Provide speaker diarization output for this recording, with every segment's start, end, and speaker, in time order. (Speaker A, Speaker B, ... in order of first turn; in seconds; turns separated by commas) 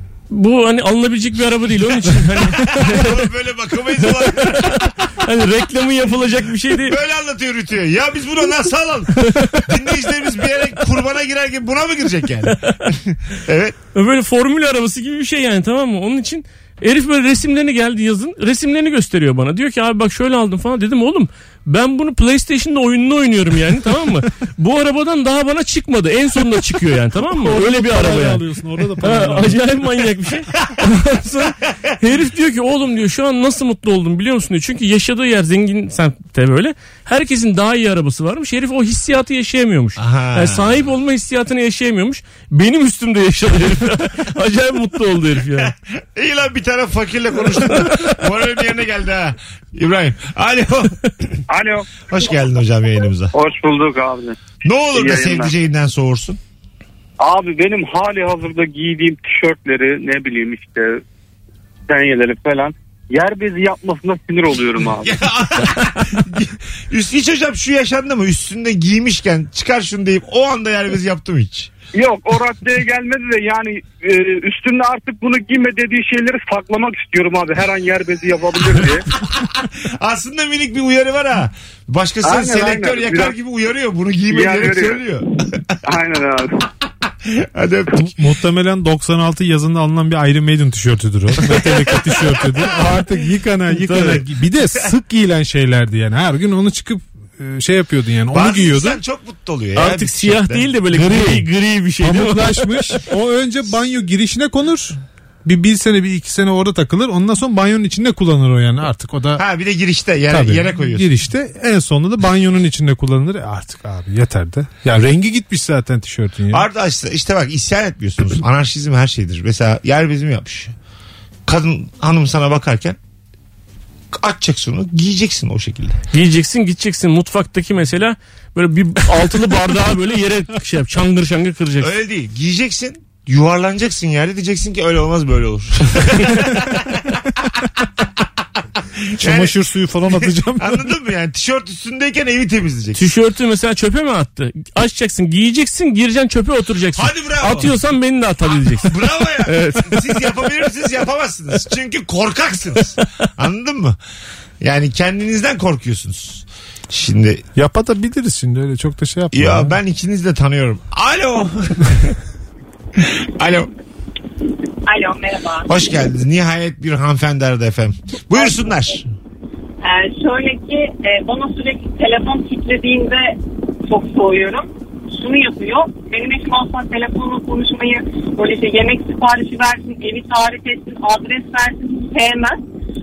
Speaker A: 0.3-3.3, Speaker B: 2.3-4.9, Speaker A: 4.0-7.0, Speaker B: 6.8-13.8, Speaker A: 9.2-9.7, Speaker A: 13.9-28.4, Speaker C: 27.3-29.9, Speaker A: 29.0-45.7, Speaker B: 40.0-40.7, Speaker B: 45.6-51.3, Speaker D: 51.5-51.9, Speaker B: 52.1-53.3, Speaker D: 53.3-54.4, Speaker B: 54.6-56.4, Speaker D: 54.9-55.5, Speaker D: 57.2-61.0, Speaker D: 61.9-65.2, Speaker B: 64.9-71.7, Speaker D: 71.9-79.0, Speaker B: 79.3-85.2, Speaker D: 82.2-83.3, Speaker D: 84.3-85.0, Speaker D: 85.8-86.5, Speaker B: 87.2-88.1, Speaker C: 88.0-99.0, Speaker B: 91.4-92.8, Speaker A: 93.9-94.2, Speaker B: 98.3-100.7, Speaker A: 99.7-103.0, Speaker C: 100.9-101.5, Speaker C: 102.0-109.4, Speaker B: 109.4-111.1, Speaker C: 110.3-116.7, Speaker B: 116.5-120.7, Speaker B: 121.5-123.0, Speaker B: 124.1-126.0, Speaker A: 126.1-131.9, Speaker B: 131.8-137.2, Speaker B: 139.1-139.6, Speaker C: 139.2-140.9, Speaker B: 140.6-143.0, Speaker A: 142.9-150.0, Speaker B: 146.9-147.7, Speaker B: 148.5-154.0, Speaker B: 154.6-157.4, Speaker C: 157.5-159.8, Speaker B: 159.3-162.1, Speaker B: 162.9-163.7, Speaker E: 164.8-165.7, Speaker B: 165.7-169.1, Speaker E: 168.3-168.6, Speaker E: 169.8-182.6